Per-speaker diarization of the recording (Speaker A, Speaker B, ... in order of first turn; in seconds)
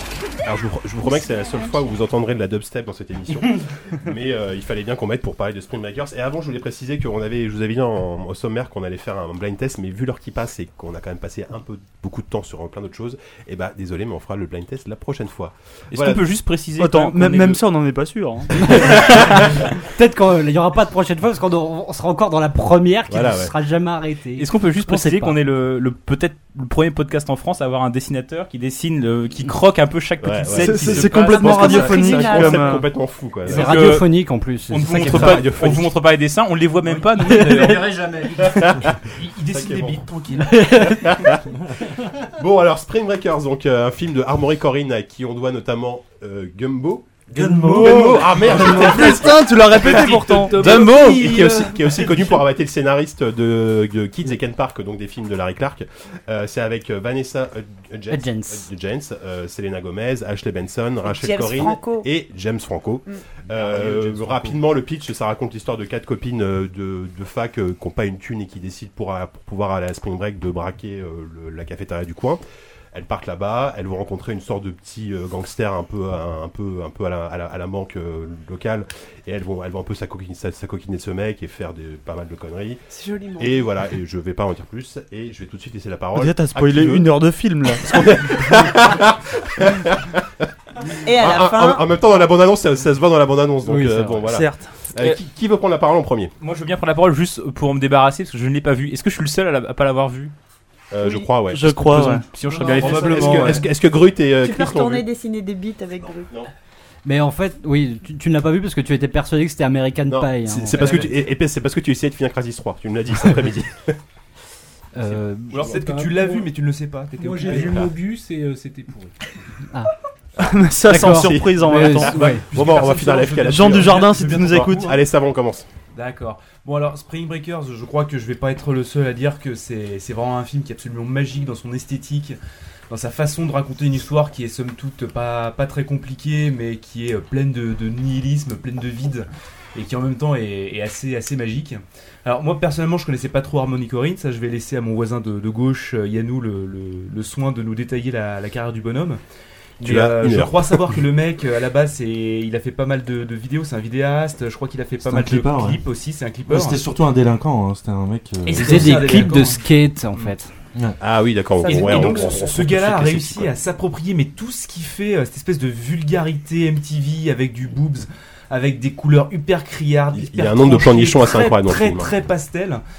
Speaker A: 0.4-16.2, 23.1-23.5, 30.2-33.9, 34.9-35.9, 38.4-40.1, 40.7-41.4, 42.3-49.4, 50.5-72.4, 72.9-82.8, 83.4-87.1, 87.8-90.5, 91.1-96.3, 100.9-105.0, 110.1-114.0, 117.5-117.9, 120.4-125.7, 149.8-151.0, 161.0-163.5, 170.1-172.1
Speaker B: 15.9-17.6, 24.4-32.2, 33.5-34.1, 34.7-37.8, 96.4-100.3, 102.3-103.5
Speaker C: 16.8-19.0, 30.5-32.9, 48.5-50.8, 86.1-87.9, 94.2-94.7, 101.4-102.2, 120.4-122.2, 123.4-124.9
Speaker D: 18.7-25.4, 33.5-35.5, 37.2-38.0, 40.4-41.3, 58.1-58.7, 93.7-94.3, 107.0-110.9, 114.9-115.8, 120.9-122.4, 158.6-160.5
Speaker E: 31.5-32.6, 61.0-62.0, 82.9-83.7, 91.0-91.8, 104.4-106.3, 161.6-162.4
Speaker F: 36.8-40.6, 49.8-52.0, 102.5-103.7, 110.7-111.1, 115.5-117.9, 122.1-125.0, 125.9-132.4, 132.9-149.2, 149.8-156.8, 158.4-159.6, 161.6-172.8
Speaker G: 47.3-48.9, 155.0-155.8, 156.5-159.3
Speaker H: 47.4-47.8, 49.8-52.3, 63.6-64.1, 115.5-116.5, 117.2-119.1